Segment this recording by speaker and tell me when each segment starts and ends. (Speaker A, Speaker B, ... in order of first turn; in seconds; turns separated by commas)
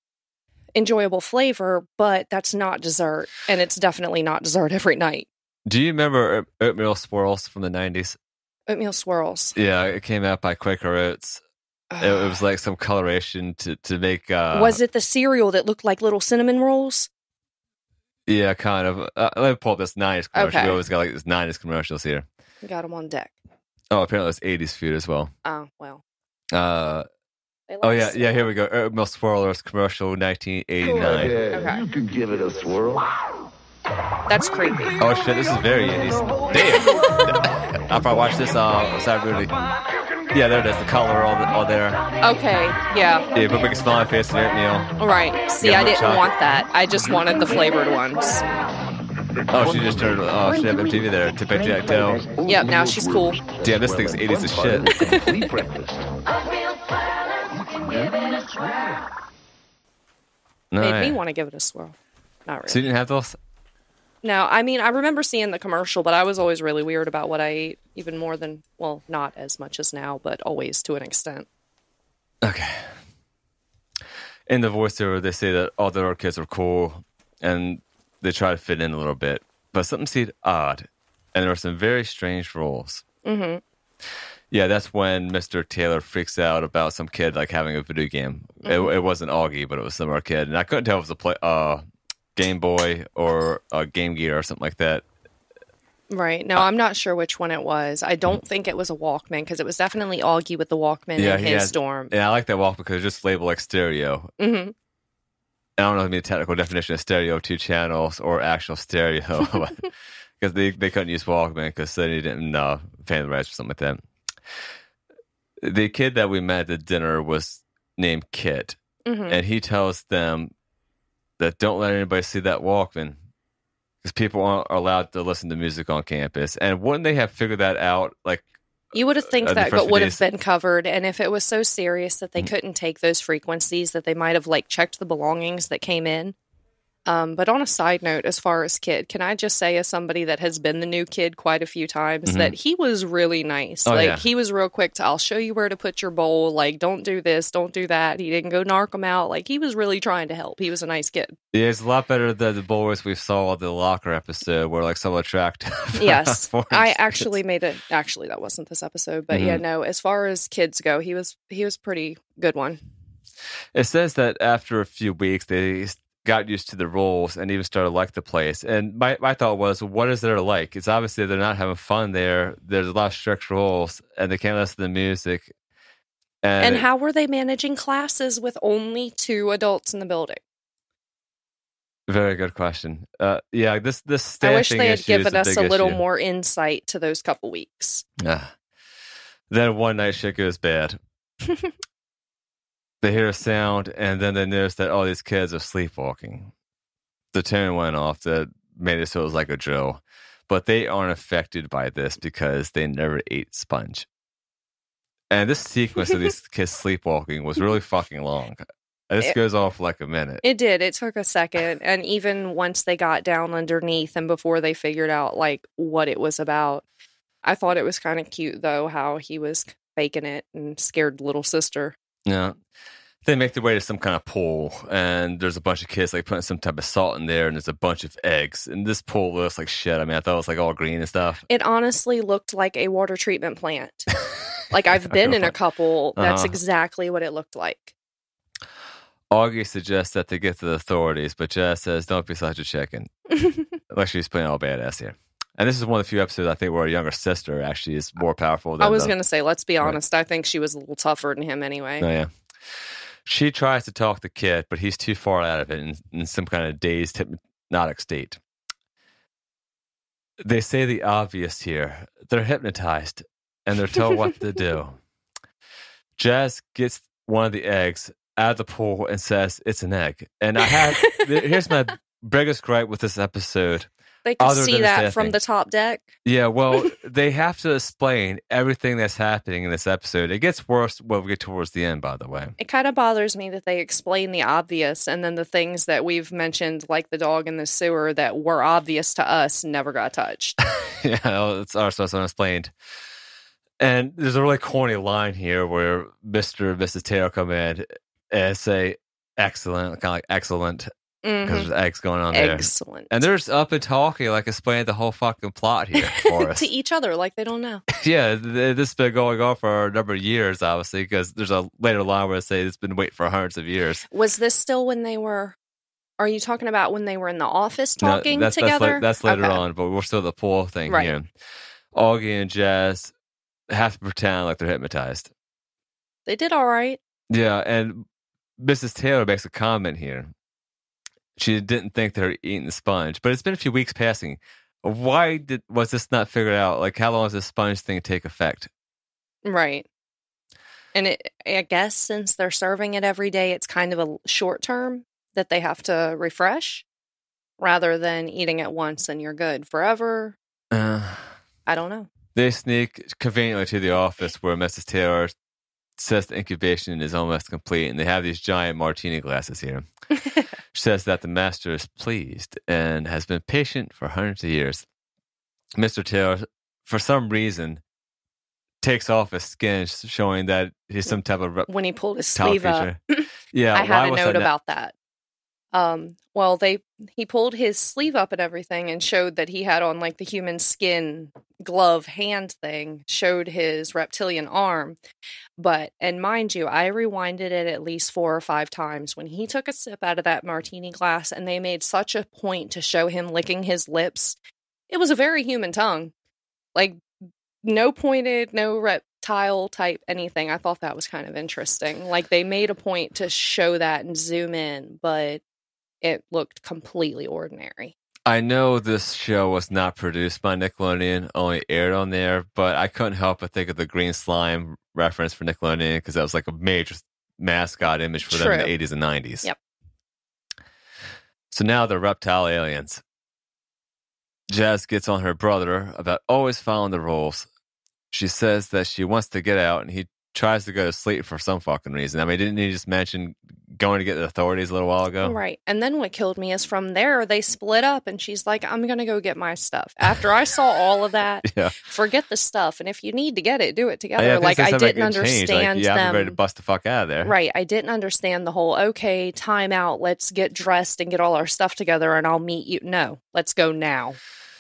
Speaker A: 0.8-5.3, Speaker B: 5.7-8.2, Speaker A: 8.7-9.6, Speaker B: 9.6-11.4, Speaker A: 11.9-12.4, Speaker B: 12.0-14.8, Speaker A: 14.5-17.1, Speaker B: 18.3-22.3, Speaker A: 20.4-20.8, Speaker A: 22.6-23.3, Speaker B: 23.9-25.3, Speaker A: 25.4-26.0, Speaker B: 26.5-27.1, Speaker A: 27.7-28.5, Speaker B: 27.8-31.4, Speaker C: 31.0-33.1, Speaker A: 31.5-31.9, Speaker A: 34.3-35.0, Speaker B: 35.0-39.5, Speaker B: 40.3-42.0, Speaker A: 42.2-43.3, Speaker B: 43.4-44.9, Speaker A: 45.0-48.5, Speaker B: 45.6-46.3, Speaker B: 49.5-52.2, Speaker C: 52.2-56.1, Speaker A: 52.4-53.4, Speaker B: 53.6-55.3, Speaker A: 55.0-55.5, Speaker C: 57.8-58.1, Speaker B: 60.7-61.2, Speaker A: 60.8-62.9, Speaker B: 62.7-63.4, Speaker A: 64.2-71.5, Speaker B: 72.4-72.9, Speaker B: 74.5-83.0, Speaker A: 83.2-83.6, Speaker B: 84.5-91.8, Speaker A: 88.6-88.9, Speaker B: 92.4-95.0, Speaker A: 96.1-102.1, Speaker B: 101.2-104.3, Speaker A: 104.4-104.7, Speaker B: 105.8-109.9, Speaker B: 110.4-114.0, Speaker B: 115.6-118.8, Speaker A: 119.0-119.4, Speaker B: 119.3-120.5, Speaker B: 121.4-123.2, Speaker B: 124.0-128.5, Speaker A: 128.9-136.4, Speaker B: 129.4-130.2, Speaker A: 137.1-151.4, Speaker B: 142.3-142.5, Speaker B: 143.9-144.2, Speaker B: 151.5-157.3, Speaker A: 156.0-162.8, Speaker B: 159.3-159.6, Speaker B: 163.8-175.5, Speaker B: 176.4-176.8, Speaker A: 176.6-180.4, Speaker B: 182.1-186.0, Speaker A: 184.4-188.1, Speaker B: 188.2-188.5, Speaker B: 189.5-191.0, Speaker B: 193.0-196.5, Speaker B: 197.3-204.1, Speaker B: 205.3-210.4, Speaker A: 210.4-216.8, Speaker A: 217.4-221.9, Speaker B: 222.3-222.6, Speaker B: 223.2-231.4, Speaker A: 231.5-234.1, Speaker A: 234.7-237.9, Speaker B: 235.0-235.5, Speaker B: 236.2-236.6, Speaker B: 239.3-243.1, Speaker B: 243.9-249.1, Speaker A: 248.8-252.1, Speaker B: 252.0-252.3, Speaker B: 253.3-258.4, Speaker B: 260.4-265.0, Speaker B: 266.2-275.4, Speaker A: 270.7-271.5, Speaker A: 274.2-276.1, Speaker B: 276.2-282.6, Speaker A: 282.6-290.6, Speaker B: 290.6-292.7, Speaker B: 293.8-300.9, Speaker A: 301.2-301.7, Speaker B: 301.4-306.7, Speaker A: 302.3-303.1, Speaker A: 306.0-307.8, Speaker B: 307.9-314.1, Speaker A: 314.1-315.6, Speaker A: 316.2-319.6, Speaker B: 318.0-321.3, Speaker A: 320.9-321.1, Speaker B: 321.9-323.1, Speaker B: 323.7-325.3, Speaker A: 326.3-327.0, Speaker B: 327.3-328.1, Speaker B: 328.6-330.3, Speaker B: 331.4-338.7, Speaker A: 339.4-339.9, Speaker A: 340.9-346.9, Speaker A: 347.6-350.4, Speaker B: 350.7-351.3, Speaker A: 351.7-352.1, Speaker B: 352.4-355.4, Speaker B: 356.0-359.9, Speaker B: 360.7-364.9, Speaker B: 365.8-367.8, Speaker B: 368.8-371.7, Speaker A: 371.7-374.9, Speaker B: 372.4-373.0, Speaker B: 373.5-374.5, Speaker A: 375.7-385.0, Speaker A: 385.6-394.4, Speaker A: 394.9-396.1, Speaker A: 396.8-397.0, Speaker A: 397.6-405.4, Speaker A: 406.0-407.9, Speaker B: 408.3-419.5, Speaker A: 418.3-418.7, Speaker B: 421.5-423.0, Speaker B: 424.5-427.5, Speaker B: 428.1-435.4, Speaker A: 435.2-446.4, Speaker B: 441.4-441.8, Speaker B: 444.2-447.3, Speaker A: 447.2-454.2